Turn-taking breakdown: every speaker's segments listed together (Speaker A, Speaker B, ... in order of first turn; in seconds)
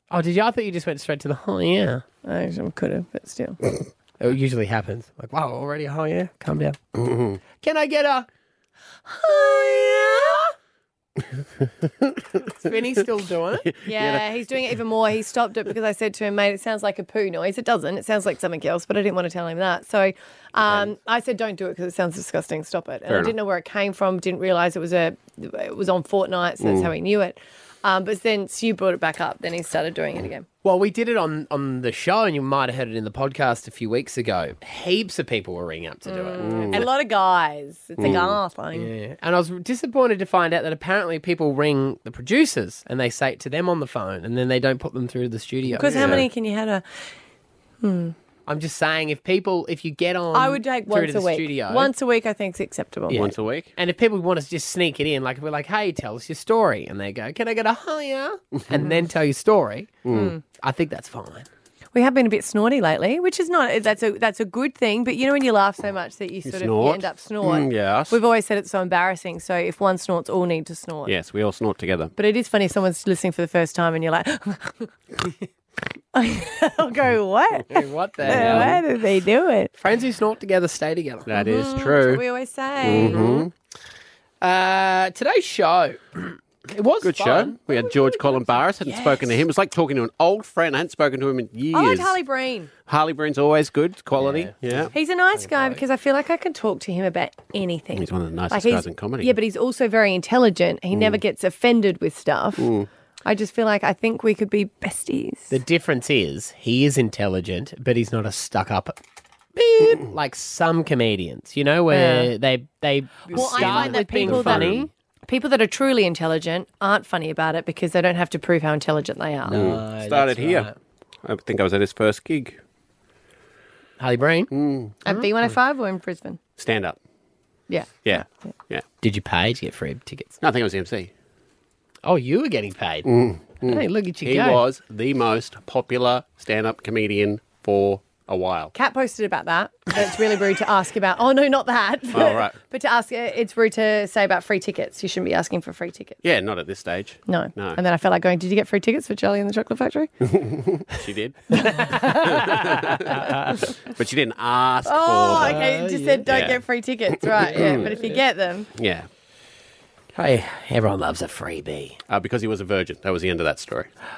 Speaker A: 0.1-2.0, 4.2-6.8, 7.6-8.3, 9.2-10.4, 12.6-13.7, 30.6-36.9, 38.7-46.2, 48.5-51.9, 53.1-61.5, 77.7-78.8, 79.8-81.3, 82.9-83.5, 84.4-87.9, 88.8-89.4, 94.1-95.8, 105.5-109.0, 109.5-114.9, 119.5-120.7, 124.0-124.5, 129.0-130.4, 132.0-134.6, 151.7-152.6, 155.4-156.2, 160.1-162.0
Speaker B: 2.2-3.6, 13.8-30.4, 36.1-38.9, 45.8-46.8, 47.8-48.1, 50.3-53.2, 60.1-60.4, 61.9-71.1, 72.2-74.9, 76.1-77.7, 78.2-79.7, 81.3-83.2, 91.7-92.7, 94.9-102.7, 103.2-105.5, 111.9-112.3, 113.3-119.6, 125.0-126.4, 127.7-128.3, 138.7-146.2, 147.3-150.1, 151.9-152.2, 154.8-158.7
Speaker C: 7.0-7.4, 11.8-12.4, 13.7-14.2, 23.1-23.3, 26.6-26.9, 36.4-36.9, 38.0-38.3, 45.7-46.3, 53.1-53.7, 60.0-60.3, 66.5-68.2, 71.0-72.1, 78.2-78.7, 81.3-82.2, 82.8-83.5, 87.0-92.2, 92.8-94.9, 97.9-99.3, 100.9-101.2, 102.6-102.9, 113.3-114.9, 119.5-120.7, 121.2-122.6, 124.5-124.9, 126.6-127.0, 128.0-128.8, 130.4-131.1, 133.0-138.7, 142.1-142.6, 146.2-147.8, 150.3-155.7, 156.2-156.6, 157.4-158.0, 158.7-159.1, 162.1-163.9